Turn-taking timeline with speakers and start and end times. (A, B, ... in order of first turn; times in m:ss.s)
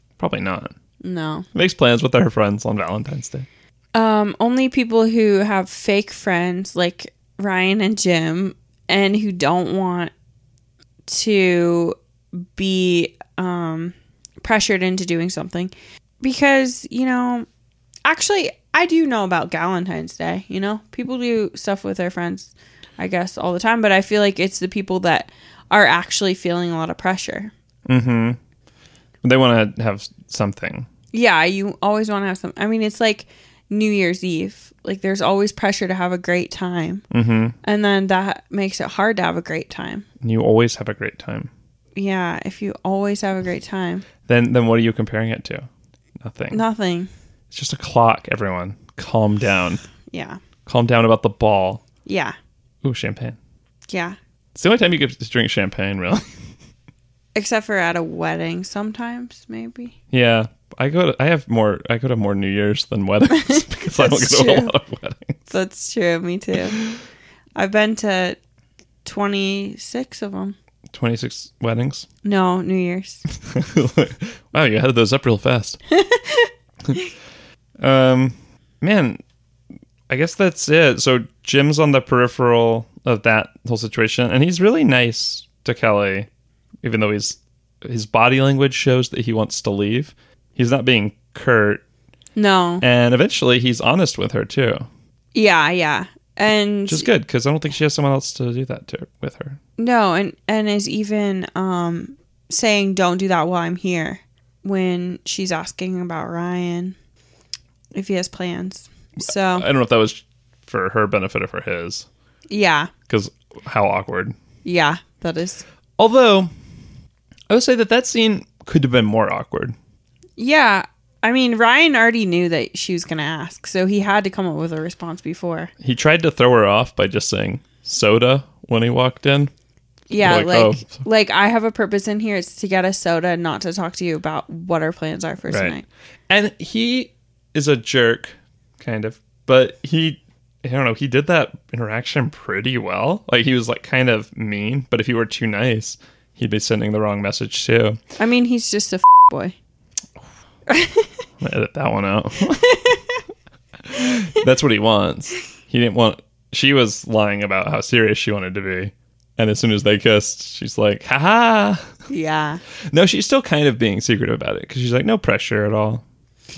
0:00.2-0:00.7 A
0:01.0-0:01.5 B
0:01.5-0:03.5 A
0:03.9-0:10.1 B
0:11.1-0:17.5 B
0:18.0-0:27.5 B
0:27.9-0:28.4 A
0:29.2-0:30.9 A
0:31.1-0:37.0 B
0:37.1-0:37.6 A
0:37.6-0:40.1 B
0:40.2-0:41.5 A
0:42.0-0:44.1 B
0:44.3-0:45.7 A
0:46.2-0:46.6 A
0:46.5-0:47.1 B
0:47.5-0:49.8 A
0:50.1-0:50.4 B
0:50.6-0:51.8 A
0:52.0-0:52.4 B
0:52.8-0:53.4 A
0:53.9-0:54.2 B
0:54.6-0:56.2 A
0:57.4-0:59.9 B
1:00.1-1:05.4 A
1:03.3-1:04.7 B
1:05.5-1:06.8 B
1:07.6-1:08.4 B
1:09.0-1:10.6 B
1:10.9-1:12.1 A
1:12.2-1:13.2 B
1:13.5-1:15.8 A
1:15.9-1:17.1 B
1:17.8-1:19.2 A
1:20.1-1:26.3 A
1:26.8-1:31.8 A
1:32.4-1:32.8 B
1:32.8-1:34.9 A
1:35.3-1:37.1 B
1:36.9-1:39.6 A
1:39.8-1:47.0 B
1:47.9-1:49.7 B
1:49.4-1:52.1 A
1:52.5-1:52.9 B
1:53.1-1:54.4 A
1:54.6-1:55.6 B
1:56.0-1:56.5 A
1:57.5-1:59.8 A
2:00.4-2:05.7 B
2:05.8-2:09.5 A
2:10.1-2:15.8 B
2:10.2-2:11.0 A
2:15.5-2:15.8 A
2:16.3-2:28.0 A
2:28.2-2:29.6 B
2:30.7-2:31.1 B
2:31.4-2:32.7 A
2:32.5-2:33.2 B
2:33.8-2:41.8 A
2:42.1-2:42.6 B
2:42.9-2:46.0 A